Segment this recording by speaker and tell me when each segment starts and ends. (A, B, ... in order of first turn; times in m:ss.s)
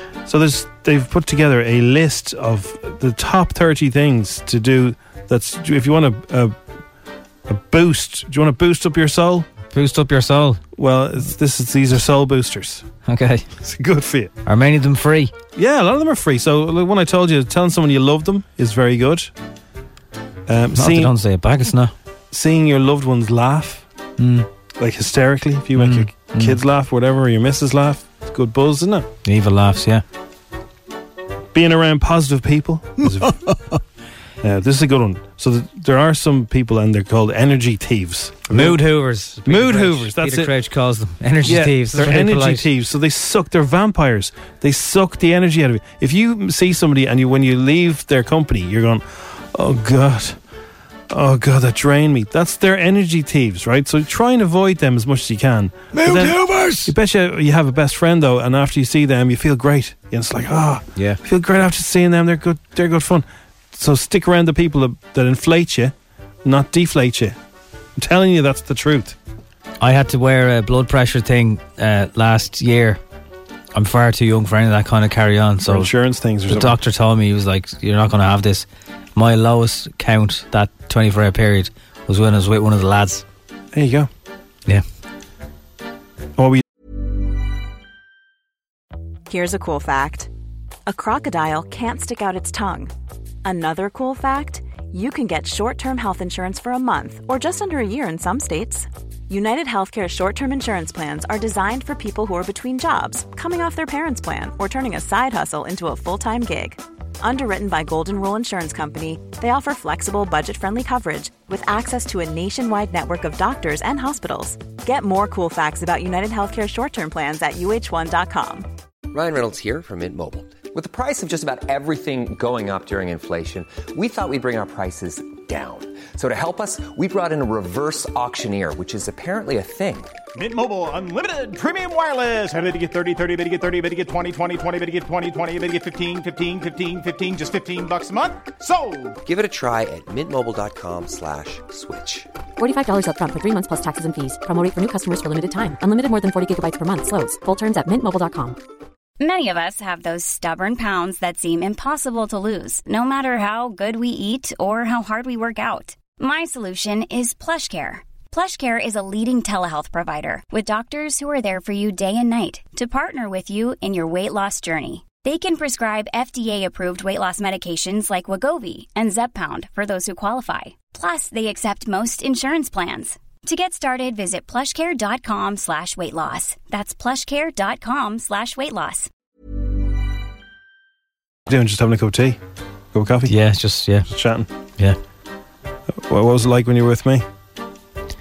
0:00.3-0:06.5 A
0:07.5-0:09.4 A
0:09.7-0:10.6 B
0:10.7-0:12.8 A
0:13.0-0:13.4 B
0:13.6-0:14.3 A
0:14.4-0:15.3 B
0:15.6-0:19.3 A
0:20.5-0:21.1 A
0:20.8-0:21.9 B
0:22.3-0:23.8 A
0:24.2-0:24.4 B
0:24.8-0:29.1 A
0:25.8-0:26.6 B
0:29.2-0:30.0 B
0:31.5-0:33.4 A
0:34.4-0:38.8 A
0:38.5-0:42.7 B
0:39.4-0:40.5 A
0:41.4-0:50.4 A
0:51.1-1:07.4 A
0:56.1-0:56.7 B
1:08.0-1:09.2 A
1:09.8-1:13.0 B
1:13.7-1:15.9 B
1:15.6-1:16.8 A
1:16.5-1:23.2 B
1:23.7-1:24.1 A
1:26.4-1:26.6 A
1:29.3-1:30.3 C
1:30.9-1:32.9 C
1:33.4-1:58.6 C
1:59.1-2:10.1 D
2:10.4-2:19.2 E
2:19.2-2:22.3 D
2:22.6-2:28.6 F
2:29.2-2:59.1 G
3:01.5-3:02.4 A
3:02.9-3:03.3 A
3:03.3-3:04.1 B
3:04.1-3:04.5 A
3:05.9-3:07.2 A